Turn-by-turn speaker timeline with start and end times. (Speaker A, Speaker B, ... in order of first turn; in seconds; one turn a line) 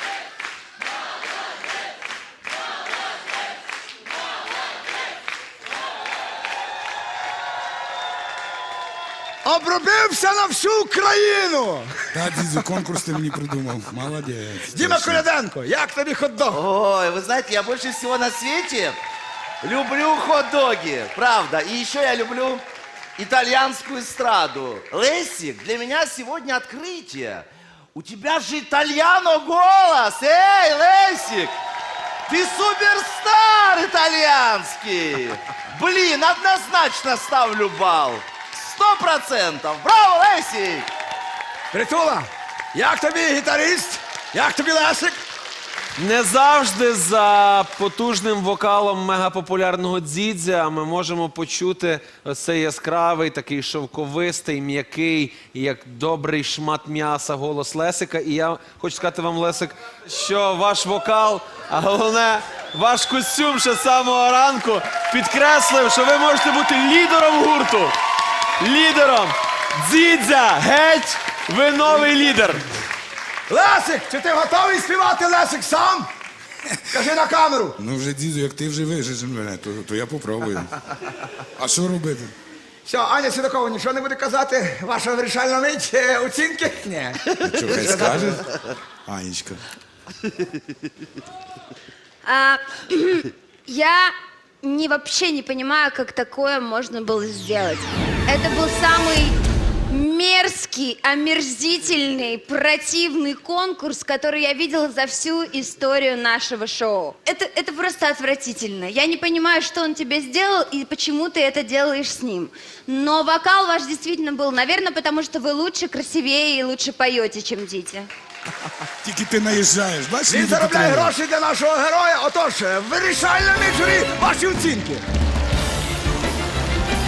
Speaker A: 9.4-12.5
Speaker B: 12.1-15.3
Speaker A: 14.7-16.6
Speaker C: 16.5-19.0
Speaker C: 19.6-22.6
Speaker C: 23.2-31.6
Speaker C: 32.3-40.9
Speaker A: 41.7-45.2
Speaker D: 46.0-67.9
Speaker D: 68.6-72.6
Speaker A: 73.5-76.1
Speaker A: 76.9-77.8
Speaker B: 77.8-80.7
Speaker B: 81.6-82.3
Speaker A: 82.8-88.3
Speaker B: 87.5-88.5
Speaker B: 89.1-89.6
Speaker E: 92.2-99.4
Speaker E: 99.9-118.1
Speaker B: 119.0-121.1
Speaker A: 120.3-125.0